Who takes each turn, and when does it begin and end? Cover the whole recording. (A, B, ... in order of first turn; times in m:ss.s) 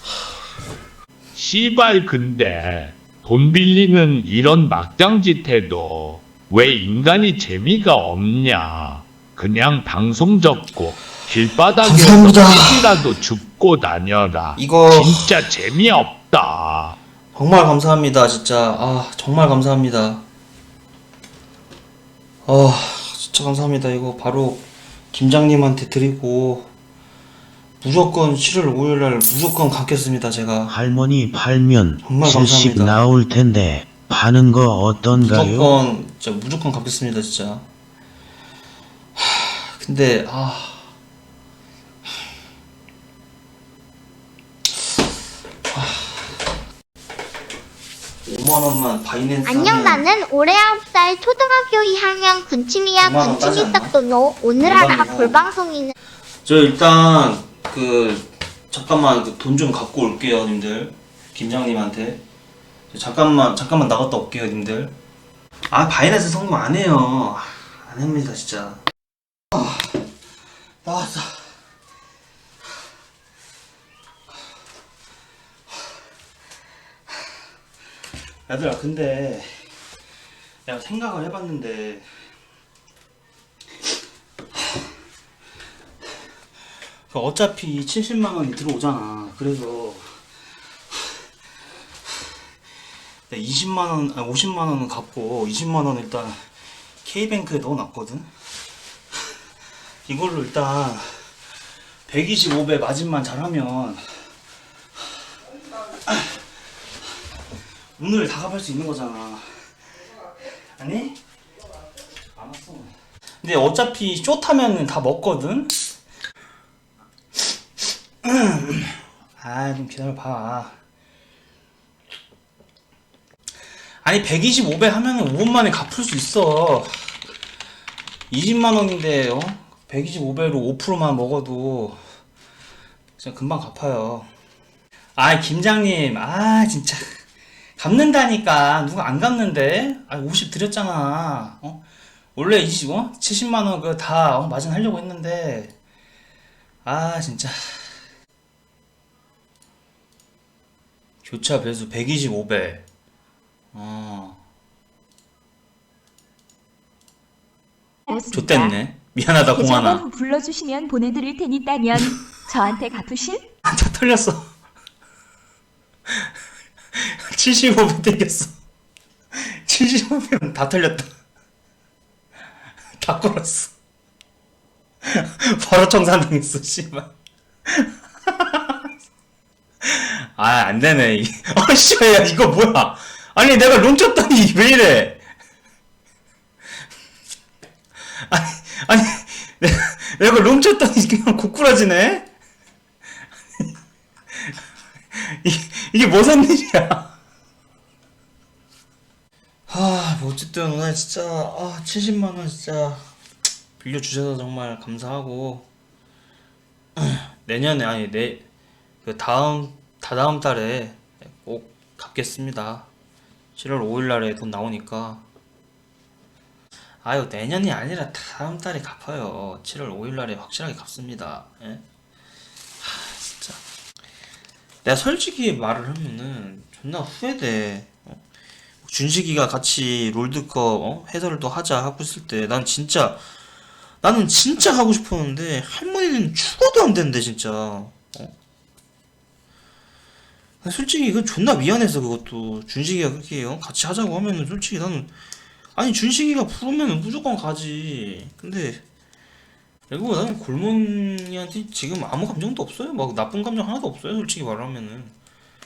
0:01.3-0:17.0 A
0:11.8-0:12.9 B
0:14.6-0:15.3 B
0:17.3-0:20.2 B
0:22.4-0:26.7 B
0:27.8-0:30.7 B
0:30.7-0:35.8 C
0:32.0-0:33.0 B
0:35.1-0:37.7 B
0:39.2-0:40.9 B
0:45.7-0:46.5 B
0:48.2-0:50.0 B
0:49.4-0:55.9 D
0:53.0-0:54.0 B
0:54.6-0:55.4 B
0:56.4-1:02.2 B
1:02.9-1:05.0 B
1:05.7-1:08.8 B
1:09.5-1:10.0 B
1:10.8-1:11.5 B
1:18.5-1:19.6 B
1:20.6-1:22.1 B
1:27.1-1:30.2 B
1:33.3-1:36.4 B
1:37.0-1:38.3 B
1:40.0-1:41.3 B
1:42.1-1:44.0 B
1:46.0-1:46.4 B
1:48.0-1:49.6 B
1:50.8-1:51.2 B
1:52.4-1:55.8 B
1:58.2-2:00.8 B
2:04.0-2:07.1 B
2:08.3-2:12.0 B
2:13.2-2:14.3 B
2:15.2-2:17.1 B
2:17.8-2:21.8 B
2:22.4-2:25.7 B
2:26.8-2:28.0 B
2:31.2-2:32.8 B
2:33.7-2:34.4 B
2:38.1-2:38.7 E
2:38.3-2:40.0 B
2:39.5-2:43.4 E
2:43.6-2:44.5 B
2:46.9-2:48.5 B
2:49.3-2:51.1 B
2:53.0-2:53.7 B
2:55.0-2:57.1 B
2:57.7-2:58.7 B
2:59.8-3:05.2 B
3:08.3-3:12.3 B
3:15.1-3:17.1 B
3:19.7-3:23.1 B
3:23.8-3:25.7 B
3:27.0-3:28.4 B
3:29.0-3:32.9 B
3:33.6-3:35.2 B
3:37.0-3:41.8 B
3:42.8-3:43.6 B
3:44.8-3:48.2 B
3:48.8-3:53.2 B
3:54.0-3:58.3 B
4:00.6-4:05.1 B
4:05.8-4:08.8 B
4:09.9-4:15.1 B